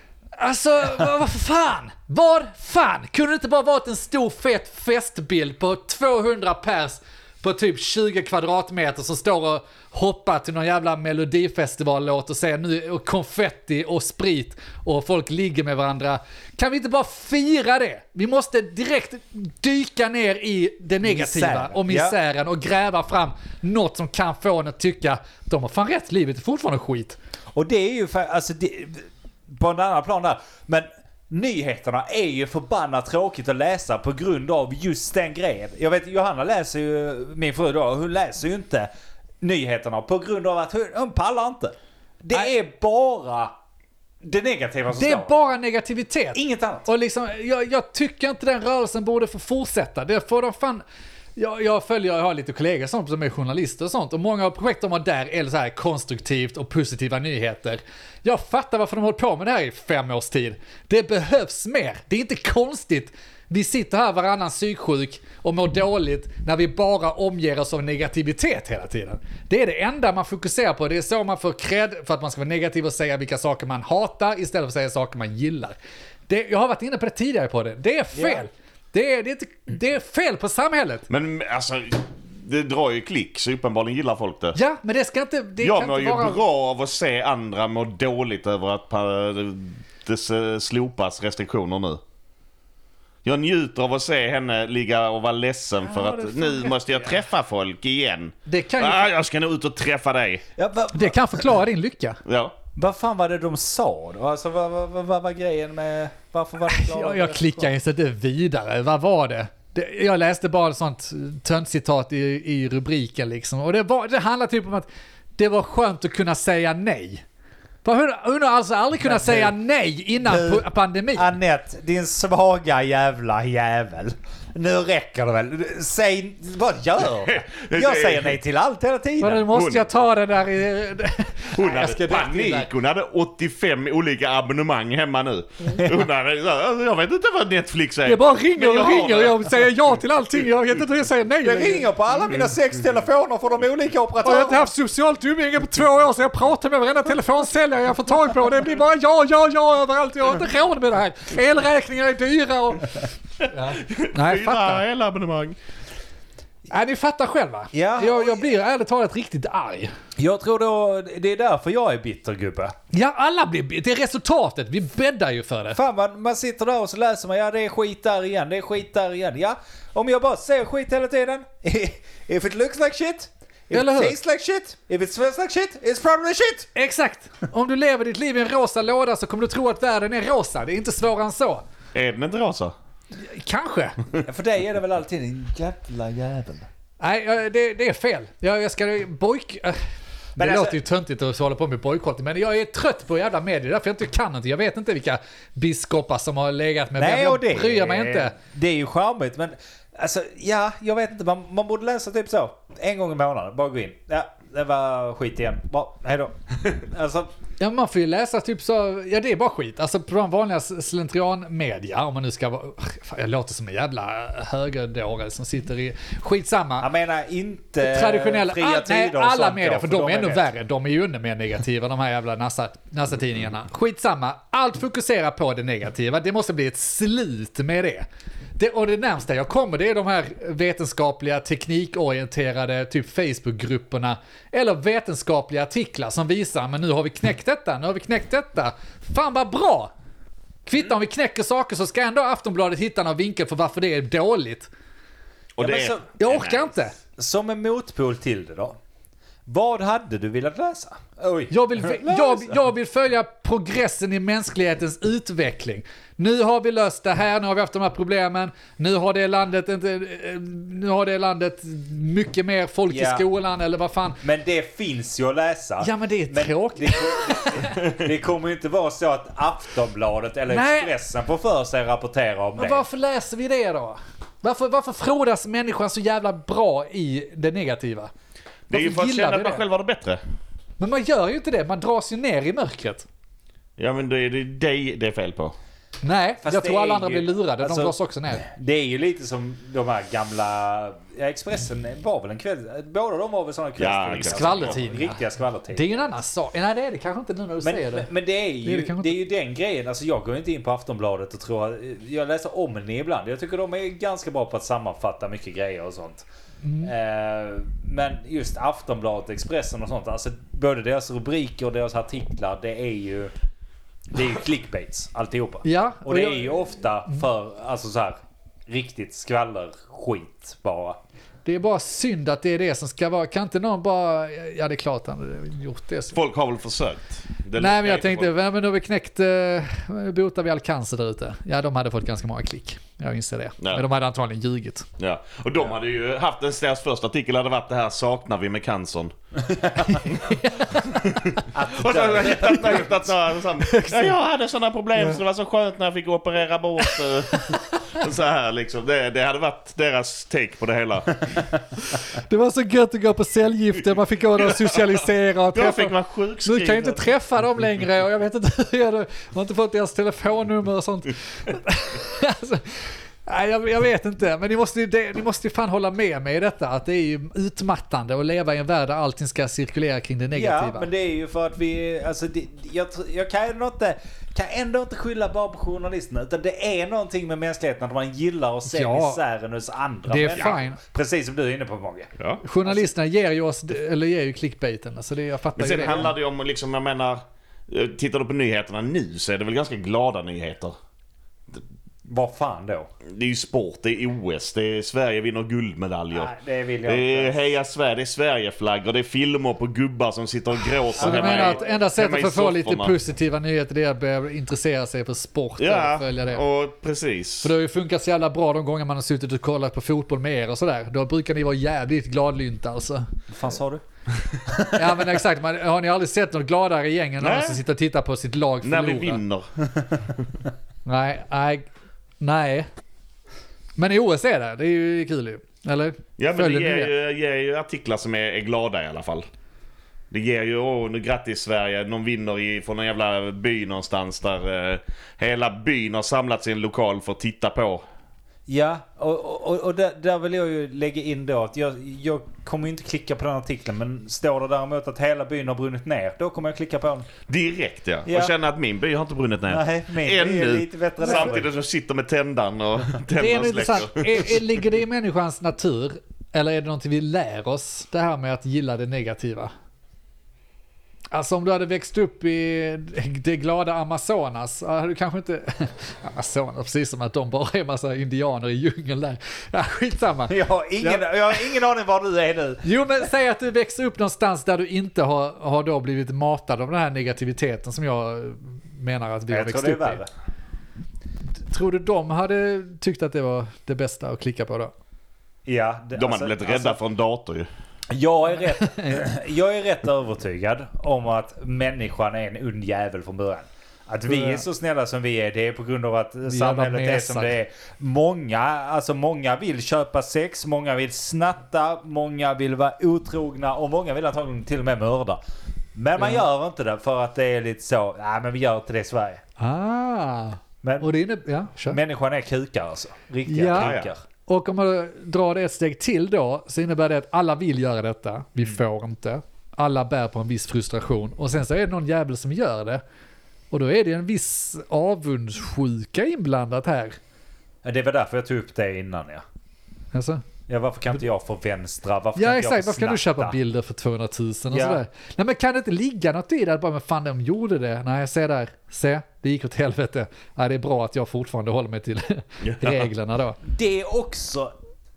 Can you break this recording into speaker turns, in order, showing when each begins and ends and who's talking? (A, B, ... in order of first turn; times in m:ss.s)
0:00.4-0:27.2 A
0:21.0-0:22.2 B
0:27.5-0:38.9 B
0:39.4-0:43.5 B
0:44.2-0:45.3 B
0:44.9-0:50.8 A
0:46.3-0:46.9 B
0:51.4-1:15.7 A
1:16.3-1:21.1 A
1:18.1-1:18.4 B
1:21.1-1:24.6 C
1:24.5-1:26.4 A
1:25.6-1:32.0 C
1:33.2-1:40.4 C
1:35.9-1:37.2 A
1:38.5-1:39.0 A
1:40.6-1:41.5 B
1:40.9-1:42.2 A
1:42.2-1:42.5 C
1:42.8-1:47.7 B
1:46.7-1:57.2 A
1:57.8-2:01.3 A
1:59.0-1:59.5 B
2:00.2-2:09.5 B
2:07.1-2:08.4 C
2:09.2-2:12.7 A
2:09.5-2:09.9 C
2:11.5-2:19.5 C
2:12.0-2:12.6 B
2:18.0-2:21.9 A
2:21.4-2:24.7 B
2:24.2-2:34.8 A
2:33.4-2:35.6 C
2:36.7-2:39.9 A
2:37.7-2:38.6 B
2:40.2-2:42.7 B
2:42.9-2:45.8 A
2:45.7-2:56.7 B
2:53.7-2:54.2 A
2:56.7-3:01.6 A
3:01.9-3:02.7 C
3:03.2-3:04.0 A
3:04.2-3:06.7 B
3:07.0-3:09.8 A
3:10.4-3:18.3 A
3:10.4-3:10.8 B
3:17.0-3:27.3 B
3:27.6-3:36.9 A
3:36.8-3:40.4 B
3:37.8-3:48.0 A
3:48.6-3:59.9 A
4:00.6-4:04.7 A
4:05.6-4:06.7 C
4:05.6-4:06.1 B
4:06.2-4:06.9 A
4:07.2-4:08.8 B
4:09.5-4:12.5 B
4:11.5-4:24.2 A
4:22.9-4:23.2 B
4:24.2-4:32.8 B
4:25.8-4:27.8 A
4:30.5-4:30.9 A
4:32.6-4:38.1 A
4:38.7-4:40.2 C
4:38.7-4:39.6 A
4:40.8-4:43.0 A
4:43.8-4:45.5 C
4:46.0-4:48.4 A
4:46.4-4:56.1 B
4:53.8-4:54.8 C
4:54.2-4:55.2 A
4:55.7-4:58.1 A
4:57.6-5:06.2 B
4:58.6-4:59.2 A
5:06.6-5:06.9 A
5:06.8-5:13.3 B
5:14.1-5:21.0 B
5:15.6-5:17.1 A
5:21.4-5:26.2 A
5:26.1-5:28.3 C
5:27.6-5:34.9 A
5:35.0-5:39.1 C
5:39.5-5:40.0 B
5:39.9-5:41.4 A
5:40.0-5:51.4 C
5:41.5-5:43.0 B
5:42.4-5:42.8 A
5:43.6-5:44.2 A
5:46.8-5:47.8 A
5:51.9-5:55.9 A
5:54.4-5:55.0 C
5:55.5-5:57.1 C
5:56.4-6:10.9 A
6:10.3-6:22.1 B
6:18.7-6:19.2 A
6:20.1-6:20.8 A
6:22.4-6:26.1 A
6:22.6-6:22.9 B
6:25.6-6:30.7 C
6:32.1-6:32.9 B
6:33.0-6:36.3 C
6:36.1-6:37.4 B
6:36.8-6:42.9 C
6:41.0-6:41.8 B
6:41.0-6:46.4 A
6:45.6-6:47.5 C
6:47.4-6:53.0 A
6:53.3-6:53.8 B
6:54.5-6:55.0 B
6:54.7-6:59.2 A
6:57.2-6:57.6 C
6:58.6-6:59.5 C
7:00.8-7:01.6 A
7:02.2-7:02.7 A
7:03.8-7:06.9 A
7:06.2-7:09.2 C
7:10.1-7:17.8 C
7:18.5-7:27.1 B
7:27.3-7:34.6 C
7:28.0-7:28.3 B
7:29.5-7:31.5 B
7:33.1-7:39.5 A
7:41.1-7:51.1 A
7:50.3-7:52.7 B
7:52.6-8:00.0 A
7:59.3-8:00.1 B
8:01.4-8:04.7 A
8:05.4-8:06.8 B
8:05.9-8:07.5 C
8:07.9-8:25.2 B
8:08.6-8:09.1 A
8:14.1-8:14.4 A
8:16.3-8:17.3 A
8:25.8-8:29.2 B
8:26.0-8:26.2 A
8:29.4-8:31.8 A
8:30.6-8:30.9 B
8:31.7-8:34.0 B
8:33.3-8:42.8 A
8:33.5-8:33.9 C
8:43.5-8:47.0 A
8:47.6-8:49.2 B
8:49.9-8:50.2 A
8:50.5-8:53.4 B
8:52.2-9:03.4 A
8:54.5-8:54.8 B
9:02.4-9:02.9 C
9:03.4-9:04.5 B